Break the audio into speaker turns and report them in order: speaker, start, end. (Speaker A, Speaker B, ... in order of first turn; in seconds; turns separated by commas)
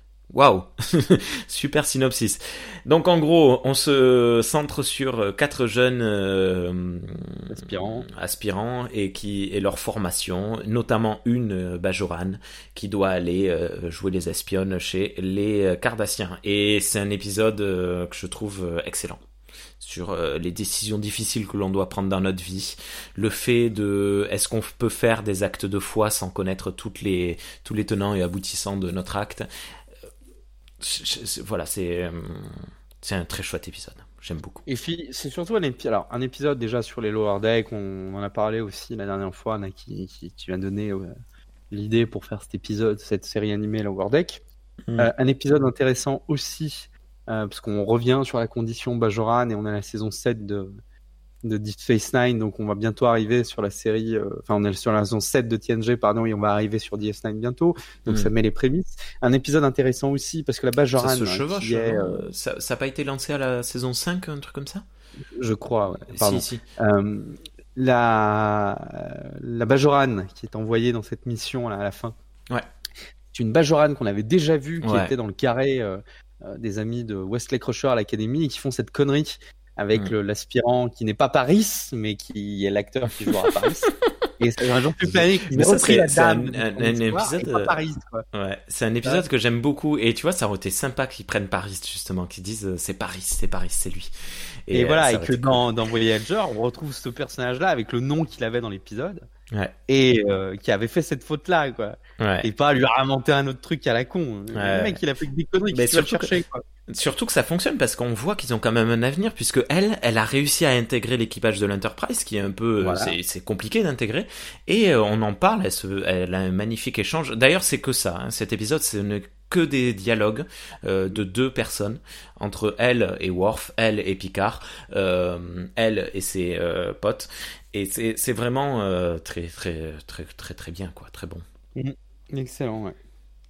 Speaker A: 0.3-19.2, Speaker B: 7.5-8.1, Speaker A: 19.8-29.5, Speaker A: 30.8-34.7, Speaker B: 34.7-41.1, Speaker B: 41.7-44.4, Speaker B: 45.0-50.8, Speaker B: 51.4-62.3, Speaker A: 61.0-64.8, Speaker B: 65.3-72.2, Speaker A: 66.1-66.6, Speaker B: 73.3-83.9, Speaker A: 74.8-75.1, Speaker B: 84.4-88.2, Speaker A: 85.0-87.7, Speaker A: 88.3-94.1, Speaker A: 94.7-95.7, Speaker B: 94.7-99.3, Speaker B: 99.9-106.6, Speaker A: 102.2-102.5, Speaker A: 104.5-105.0, Speaker A: 105.7-106.3, Speaker A: 106.9-131.4, Speaker B: 112.8-113.2, Speaker B: 131.8-133.0